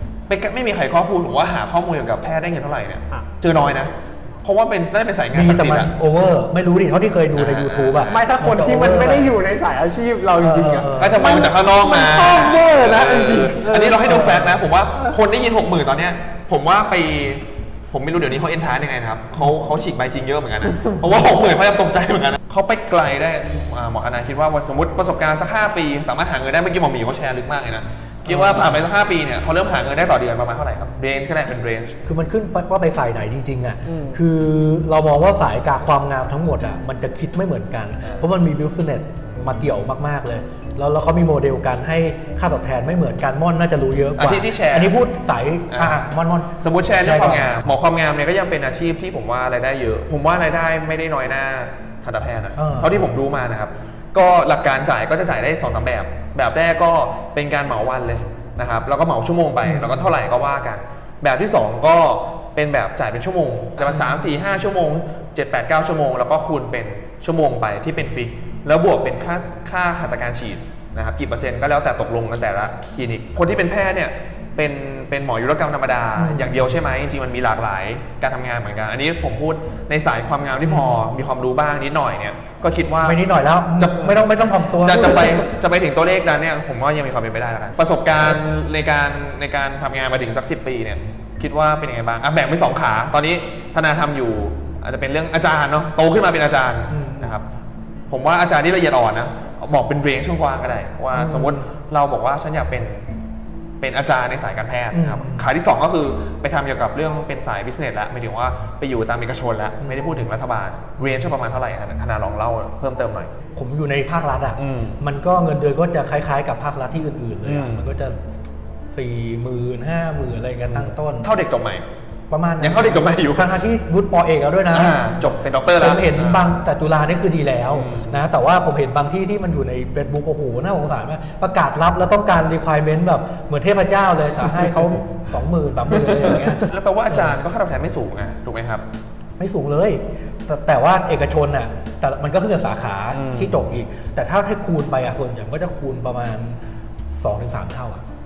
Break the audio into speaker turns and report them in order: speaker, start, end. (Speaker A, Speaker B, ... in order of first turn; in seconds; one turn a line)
Speaker A: 0.3-5.9
Speaker B: 5.3-9.4
Speaker A: 7.3-8.2
Speaker C: 8.0-14.5
Speaker B: 10.4-11.3
Speaker A: 11.0-32.0
Speaker B: 14.1-14.5
Speaker B: 28.3-28.8
Speaker B: 32.0-47.5
Speaker C: 33.9-34.2
Speaker A: 44.2-45.0
Speaker A: 45.7-46.0
Speaker A: 46.6-83.2
Speaker B: 52.6-53.1
Speaker B: 59.6-60.1
Speaker B: 63.9-64.2
Speaker B: 76.2-76.6
Speaker B: 80.6-81.0
Speaker B: 83.0-85.5
Speaker A: 83.8-97.5
Speaker B: 96.9-97.3
Speaker A: 98.1-103.1
Speaker B: 101.1-101.7
Speaker A: 103.8-113.3
Speaker B: 104.9-105.5
Speaker B: 109.8-110.2
Speaker B: 113.6-118.2
Speaker A: 114.6-115.0
Speaker A: 117.4-117.9
Speaker B: 118.9-121.3
Speaker A: 120.7-121.9
Speaker B: 122.3-125.0
Speaker A: 122.6-123.6
Speaker A: 124.7-126.5
Speaker B: 125.8-137.4
Speaker A: 127.7-128.2
Speaker A: 136.1-138.8
Speaker B: 139.4-146.6
Speaker A: 143.1-143.6
Speaker B: 147.2-148.0